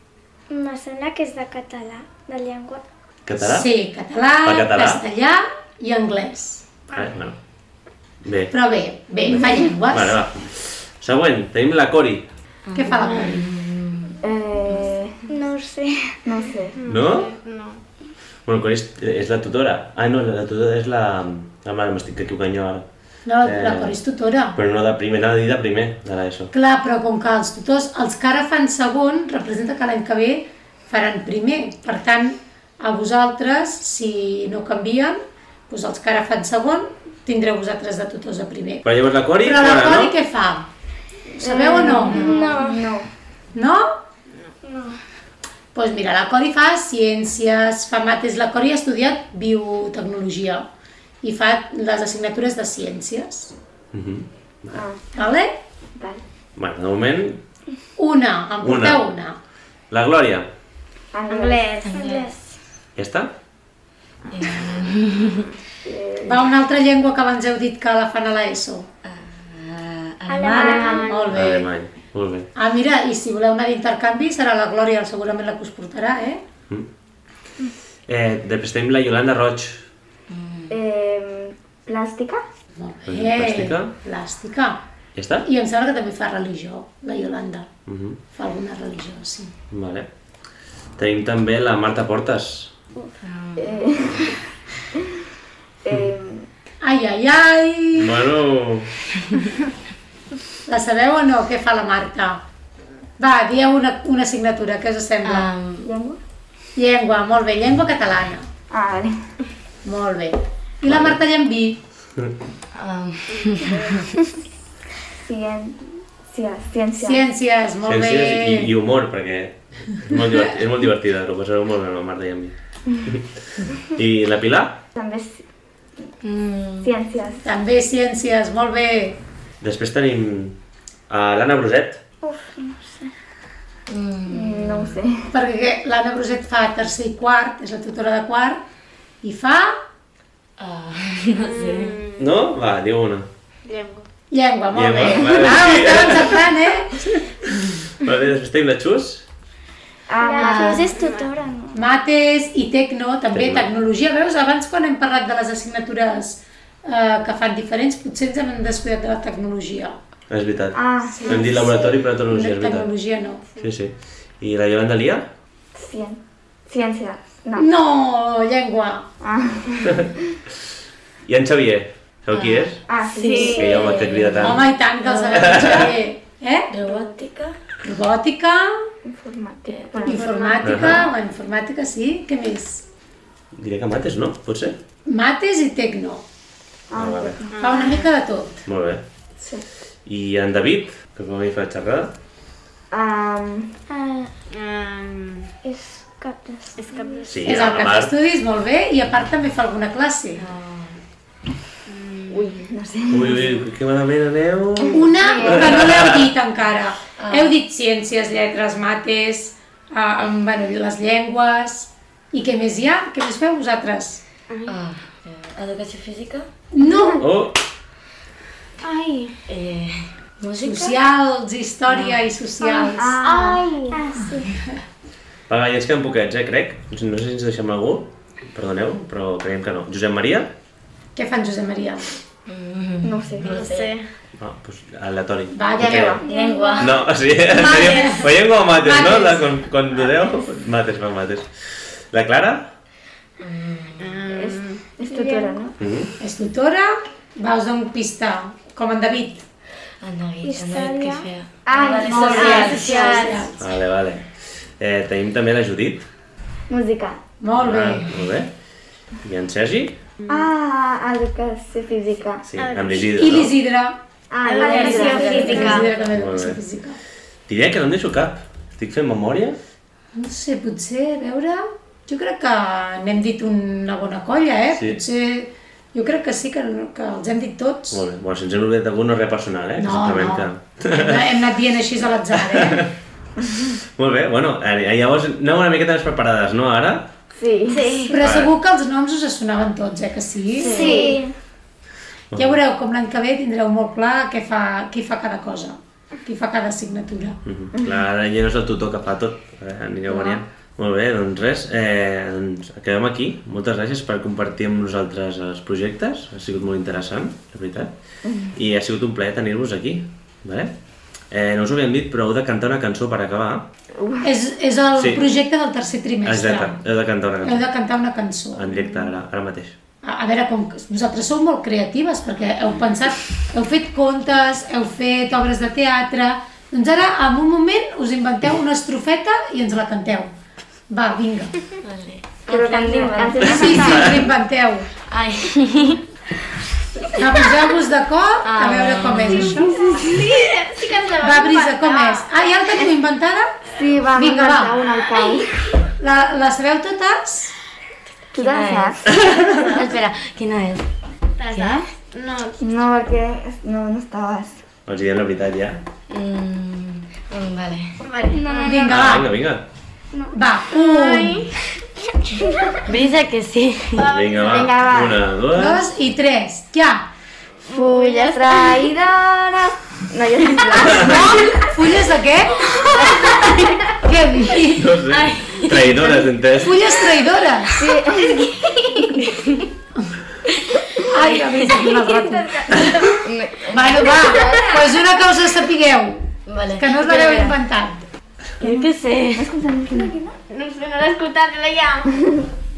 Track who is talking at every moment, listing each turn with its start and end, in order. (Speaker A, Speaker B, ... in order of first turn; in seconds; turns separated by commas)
Speaker A: 0.5-2.8, Speaker B: 3.3-3.7, Speaker C: 3.4-6.8, Speaker B: 4.4-5.0, Speaker B: 6.9-7.4, Speaker B: 8.2-8.5, Speaker C: 8.5-10.2, Speaker B: 9.3-12.3, Speaker D: 12.7-14.2, Speaker C: 12.8-13.5, Speaker E: 14.2-15.2, Speaker A: 15.3-16.2, Speaker E: 16.2-16.8, Speaker F: 16.7-17.8, Speaker B: 16.9-17.3, Speaker B: 18.5-22.9, Speaker C: 23.3-24.6, Speaker B: 23.4-24.0, Speaker B: 24.5-26.5, Speaker C: 26.5-38.9, Speaker B: 38.8-40.1, Speaker C: 39.4-40.7, Speaker C: 41.4-42.4, Speaker E: 41.4-43.1, Speaker A: 41.9-42.9, Speaker C: 43.5-43.9, Speaker A: 44.6-45.0, Speaker C: 45.7-50.7, Speaker C: 51.2-53.5, Speaker B: 53.9-54.8, Speaker E: 54.7-55.0, Speaker C: 55.1-55.5, Speaker E: 56.0-56.2, Speaker B: 56.6-57.4, Speaker C: 58.0-59.4, Speaker B: 58.6-59.0, Speaker B: 59.9-60.5, Speaker E: 61.1-61.6, Speaker F: 61.3-62.3, Speaker D: 61.8-62.3, Speaker A: 62.0-62.4, Speaker B: 63.0-63.3, Speaker D: 64.3-65.5, Speaker E: 65.8-66.4, Speaker C: 66.2-68.9, Speaker D: 69.0-71.0, Speaker A: 70.3-71.1, Speaker E: 70.5-71.1, Speaker F: 70.6-71.4, Speaker C: 71.0-71.7, Speaker B: 71.3-72.5, Speaker C: 72.6-76.4, Speaker B: 78.1-79.9, Speaker D: 80.3-80.8, Speaker E: 80.7-82.4, Speaker C: 82.8-84.8, Speaker B: 83.1-83.9, Speaker B: 85.2-85.5, Speaker C: 85.4-87.7, Speaker B: 87.9-88.2, Speaker C: 88.3-89.5, Speaker B: 89.7-90.1, Speaker B: 91.0-92.7, Speaker D: 93.2-94.3, Speaker E: 93.6-94.4, Speaker E: 95.8-96.5, Speaker C: 96.8-98.2, Speaker B: 98.0-98.9, Speaker C: 100.7-102.4, Speaker C: 103.2-105.5, Speaker D: 105.2-105.9, Speaker E: 105.8-106.2, Speaker C: 106.8-108.5, Speaker E: 108.7-109.2, Speaker C: 109.8-111.8, Speaker B: 110.8-111.2, Speaker D: 112.8-114.0, Speaker E: 113.6-114.1, Speaker E: 115.1-117.2, Speaker C: 117.0-118.7, Speaker B: 117.9-124.8, Speaker E: 125.0-125.4, Speaker D: 126.2-126.9, Speaker E: 126.8-127.5, Speaker C: 127.4-129.2, Speaker B: 129.6-130.6, Speaker B: 131.1-132.0, Speaker A: 132.2-133.1, Speaker D: 133.9-135.0, Speaker E: 134.3-135.3, Speaker C: 135.3-138.6, Speaker C: 139.2-139.8, Speaker D: 140.6-142.0, Speaker F: 141.4-142.3, Speaker B: 142.2-143.3, Speaker F: 143.7-144.1, Speaker C: 144.3-147.2, Speaker B: 144.7-146.5, Speaker B: 148.0-149.2, Speaker E: 150.1-150.9, Speaker A: 150.2-151.8, Speaker F: 150.3-151.3, Speaker D: 150.4-150.8, Speaker C: 151.7-160.0, Speaker B: 153.3-153.7, Speaker B: 160.3-162.9, Speaker E: 160.7-162.0, Speaker C: 161.2-163.5, Speaker B: 163.6-165.3, Speaker E: 165.7-167.7, Speaker C: 167.6-169.1, Speaker E: 169.2-170.2, Speaker B: 171.3-172.8, Speaker D: 172.3-175.9, Speaker E: 172.9-173.9, Speaker F: 173.2-173.6, Speaker B: 173.6-174.7, Speaker C: 174.4-176.7, Speaker B: 175.3-175.9, Speaker D: 176.7-177.6, Speaker C: 177.8-178.9, Speaker E: 179.1-180.4, Speaker D: 179.7-180.0, Speaker C: 180.1-182.8, Speaker F: 180.1-181.0, Speaker B: 180.6-181.1, Speaker B: 183.6-184.8, Speaker C: 185.1-186.2, Speaker E: 186.9-187.6, Speaker B: 186.9-187.4, Speaker F: 187.5-188.1, Speaker C: 187.6-188.6, Speaker B: 188.7-189.0, Speaker E: 189.4-189.7, Speaker B: 190.1-192.1, Speaker E: 192.9-193.7, Speaker A: 193.9-194.3, Speaker F: 194.5-195.5, Speaker A: 195.6-197.3, Speaker F: 196.8-197.7, Speaker B: 197.3-198.1, Speaker C: 197.5-200.4, Speaker D: 200.4-201.0, Speaker F: 201.9-202.5, Speaker E: 202.3-203.6, Speaker B: 203.1-206.3, Speaker E: 204.8-205.5, Speaker C: 204.9-214.2, Speaker D: 207.2-207.5, Speaker F: 214.5-214.8, Speaker D: 214.7-216.5, Speaker C: 216.7-217.3, Speaker B: 217.2-217.6, Speaker F: 218.8-219.4, Speaker D: 219.5-221.0, Speaker C: 220.6-223.2, Speaker D: 221.9-222.2, Speaker E: 223.0-223.6, Speaker F: 223.2-224.1, Speaker A: 223.9-224.5, Speaker C: 224.2-224.7, Speaker B: 225.5-230.5, Speaker C: 231.2-232.1, Speaker D: 232.5-233.9, Speaker E: 233.0-233.6, Speaker F: 233.4-234.1, Speaker B: 234.4-236.2, Speaker C: 235.5-236.2, Speaker E: 235.8-236.2, Speaker A: 236.2-237.0, Speaker D: 236.2-237.0, Speaker B: 236.8-242.7, Speaker C: 237.5-239.5, Speaker D: 243.4-244.2, Speaker F: 244.0-244.8, Speaker E: 244.3-245.7, Speaker A: 245.1-245.6, Speaker B: 245.8-246.1, Speaker C: 246.2-249.4, Speaker D: 250.0-253.3, Speaker A: 250.4-251.3, Speaker E: 251.7-253.5, Speaker C: 252.2-253.6, Speaker F: 252.3-253.5, Speaker B: 253.6-256.1, Speaker E: 256.7-257.2, Speaker C: 257.4-258.1, Speaker B: 257.6-258.5, Speaker B: 259.2-260.0, Speaker F: 260.2-260.4, Speaker E: 260.3-262.4, Speaker B: 262.4-263.5, Speaker F: 262.6-263.3, Speaker C: 263.2-264.0, Speaker E: 264.3-265.8, Speaker F: 264.4-265.9, Speaker A: 264.6-265.2, Speaker C: 264.6-267.0, Speaker D: 264.7-265.8, Speaker B: 266.1-266.6, Speaker B: 267.5-269.6, Speaker C: 270.1-278.0, Speaker B: 274.7-275.0, Speaker B: 277.9-281.4, Speaker C: 279.8-282.9, Speaker B: 282.4-282.9, Speaker B: 283.6-287.1, Speaker E: 287.3-287.9, Speaker F: 287.7-288.2, Speaker C: 288.1-290.8, Speaker B: 288.2-288.5, Speaker E: 290.6-291.2, Speaker A: 290.6-291.3, Speaker F: 290.6-291.2, Speaker B: 292.3-292.6, Speaker C: 292.4-297.4, Speaker B: 297.4-307.9, Speaker E: 308.2-308.5, Speaker B: 308.5-310.7, Speaker B: 311.3-313.7, Speaker E: 313.9-314.3, Speaker C: 314.2-316.8, Speaker B: 314.9-315.3, Speaker B: 316.2-317.7, Speaker C: 317.4-318.7, Speaker B: 318.6-319.8, Speaker C: 320.0-330.3, Speaker C: 330.9-331.6, Speaker D: 331.8-333.9, Speaker E: 332.5-334.2, Speaker C: 333.4-334.9, Speaker D: 335.1-336.0, Speaker C: 337.1-339.9, Speaker D: 338.4-339.6, Speaker E: 339.8-340.2, Speaker F: 339.8-342.3, Speaker C: 341.2-343.6, Speaker E: 343.7-345.5, Speaker C: 344.1-344.8, Speaker C: 346.0-347.5, Speaker E: 348.3-349.5, Speaker D: 348.3-349.0, Speaker D: 349.5-350.9, Speaker F: 349.6-349.8, Speaker F: 351.4-352.6, Speaker D: 351.5-351.9, Speaker E: 352.6-354.6, Speaker B: 354.9-355.8, Speaker D: 356.1-357.9, Speaker F: 358.1-358.9, Speaker A: 358.3-358.9, Speaker C: 358.6-359.4, Speaker B: 358.9-359.6, Speaker F: 360.2-361.6, Speaker C: 360.3-361.4, Speaker F: 362.4-362.8, Speaker D: 362.8-364.1, Speaker F: 364.0-364.8, Speaker B: 364.1-365.9, Speaker E: 364.4-365.2, Speaker C: 365.5-367.1, Speaker F: 367.7-368.9, Speaker E: 367.7-371.6, Speaker B: 370.8-371.4, Speaker C: 371.1-372.7, Speaker D: 373.1-373.5, Speaker C: 374.0-375.0, Speaker B: 374.6-377.0, Speaker D: 375.1-376.2, Speaker C: 376.6-377.9, Speaker E: 377.8-379.0, Speaker D: 379.1-379.7, Speaker C: 381.1-383.0, Speaker D: 381.4-381.9, Speaker F: 382.7-383.0, Speaker E: 383.2-384.6, Speaker D: 383.7-384.7, Speaker C: 383.7-388.1, Speaker D: 386.5-387.6, Speaker D: 388.6-389.5, Speaker E: 388.6-390.3, Speaker F: 390.5-392.1, Speaker E: 392.1-392.5